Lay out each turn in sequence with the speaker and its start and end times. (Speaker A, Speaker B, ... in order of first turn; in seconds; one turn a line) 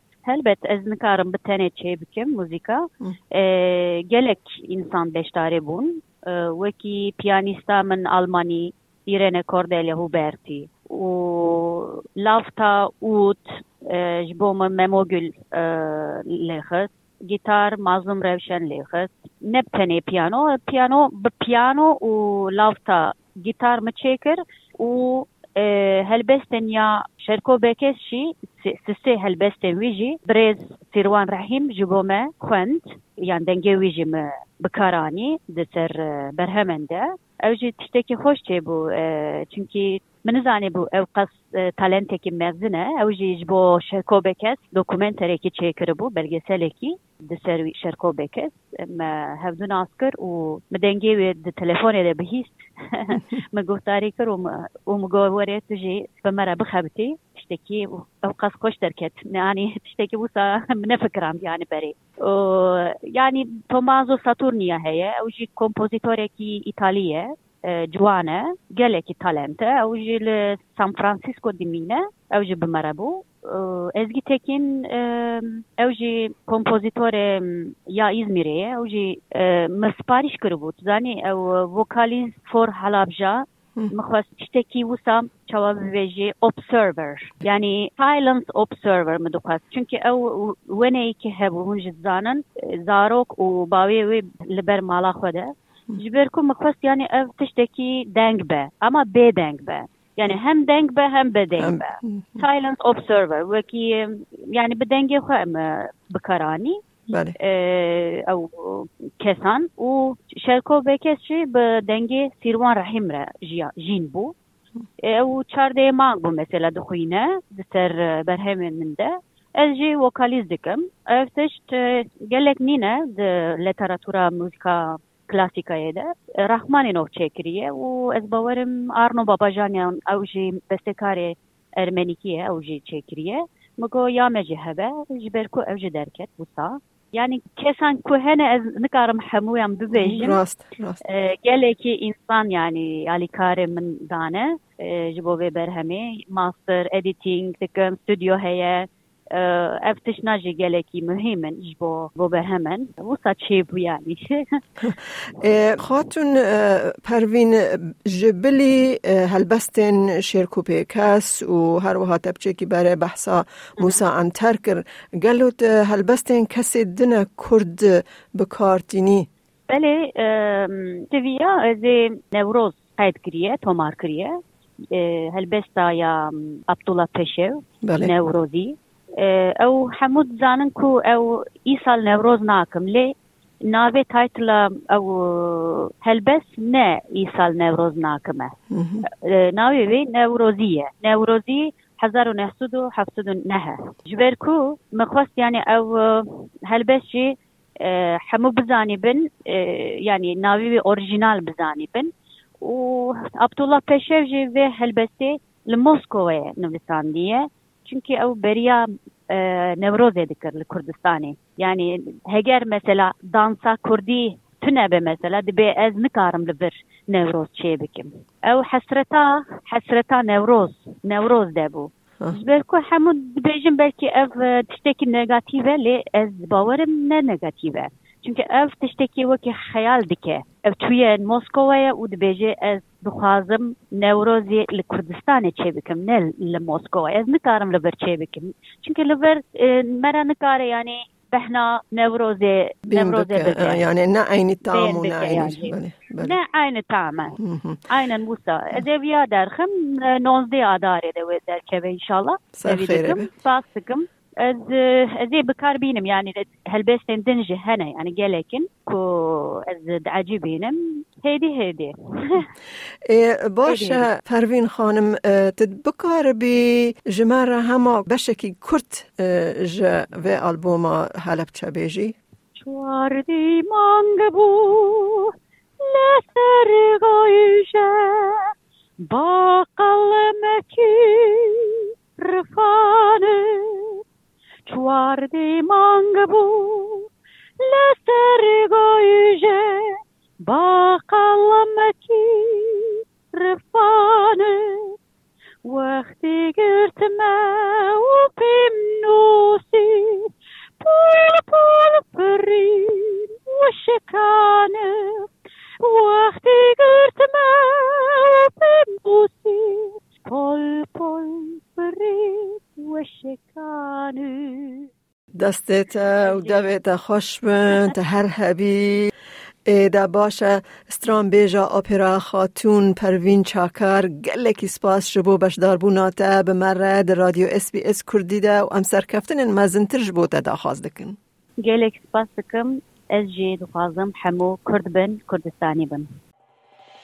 Speaker A: 0.2-106.8
Speaker B: 101.6-102.4
Speaker B: 107.1-107.3
Speaker A: 107.4-114.3
Speaker A: 115.0-140.4
Speaker B: 139.9-141.0
Speaker A: 141.0-154.6
Speaker B: 154.8-169.3
Speaker A: 169.7-174.4
Speaker A: 174.9-243.9
Speaker B: 177.8-178.1
Speaker B: 188.7-189.1
Speaker B: 242.9-246.4
Speaker A: 244.6-247.4
Speaker B: 247.4-247.8
Speaker A: 247.9-262.5
Speaker B: 252.6-253.3
Speaker B: 263.1-272.2
Speaker A: 263.7-264.1
Speaker A: 272.6-278.5
Speaker A: 279.1-284.0
Speaker A: 284.7-287.1
Speaker A: 287.6-294.9
Speaker A: 295.6-305.3
Speaker A: 305.8-314.9
Speaker B: 315.4-319.1
Speaker A: 316.2-316.7
Speaker B: 319.7-331.2
Speaker A: 331.6-336.1